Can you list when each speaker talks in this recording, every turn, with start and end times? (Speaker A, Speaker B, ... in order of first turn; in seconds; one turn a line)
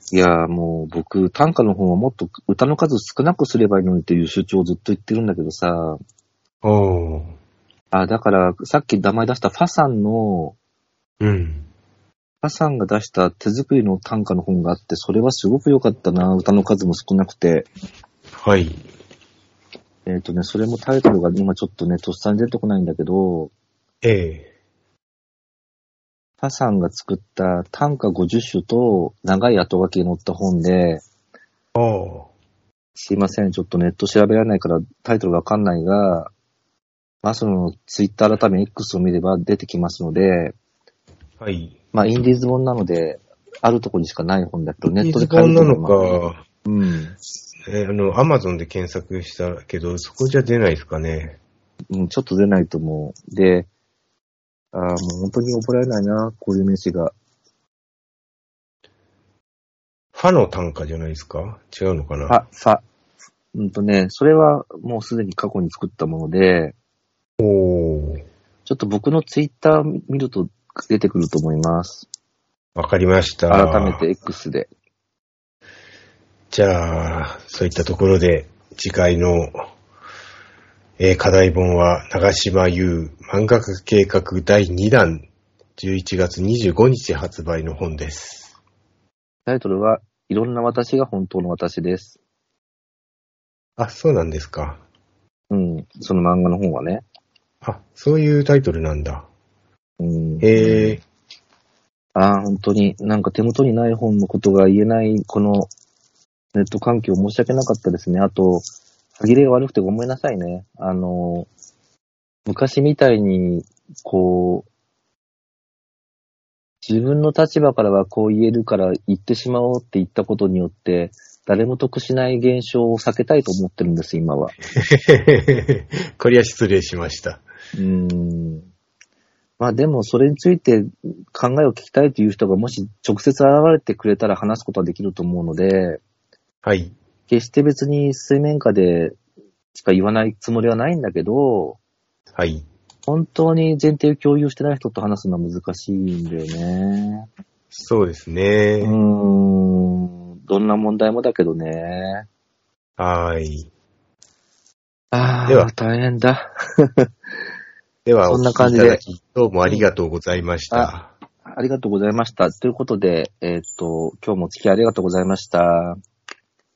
Speaker A: 0.1-6.0
Speaker B: 6.6-7.3
Speaker A: 7.9-10.6
Speaker B: 11.2-11.6
Speaker A: 12.4-17.7
Speaker B: 18.3-18.8
Speaker A: 20.1-23.5
Speaker B: 24.0-24.5
Speaker A: 26.4-31.0
Speaker B: 31.7-32.3
Speaker A: 33.0-36.3
Speaker A: 37.2-40.5
Speaker B: 41.4-41.8
Speaker A: 41.9-47.1
Speaker B: 44.9-46.4
Speaker B: 47.7-51.4
Speaker A: 51.9-53.7
Speaker A: 54.7-57.1
Speaker B: 60.1-62.4
Speaker A: 62.3-62.8
Speaker A: 63.5-66.8
Speaker B: 67.4-68.2
Speaker A: 68.7-72.1
Speaker B: 72.7-74.0
Speaker A: 73.5-74.7
Speaker B: 76.5-79.6
Speaker B: 81.0-85.2
Speaker B: 85.8-88.5
Speaker A: 89.5-92.2
Speaker B: 93.8-94.8
Speaker A: 95.5-97.0
Speaker B: 97.6-99.3
Speaker A: 100.0-101.0
Speaker B: 100.4-101.0
Speaker A: 102.1-105.7
Speaker A: 106.5-111.5
Speaker A: 112.5-114.7
Speaker A: 116.8-124.5
Speaker B: 124.8-127.4
Speaker A: 127.7-128.7
Speaker A: 129.6-136.0
Speaker B: 136.6-136.9
Speaker A: 137.3-139.2
Speaker A: 139.7-141.8
Speaker B: 142.3-142.6
Speaker A: 143.1-147.3
Speaker B: 147.7-148.9
Speaker A: 148.8-152.3
Speaker B: 153.0-153.7
Speaker A: 155.1-157.1
Speaker B: 158.0-161.1
Speaker A: 158.2-159.0
Speaker A: 161.5-166.0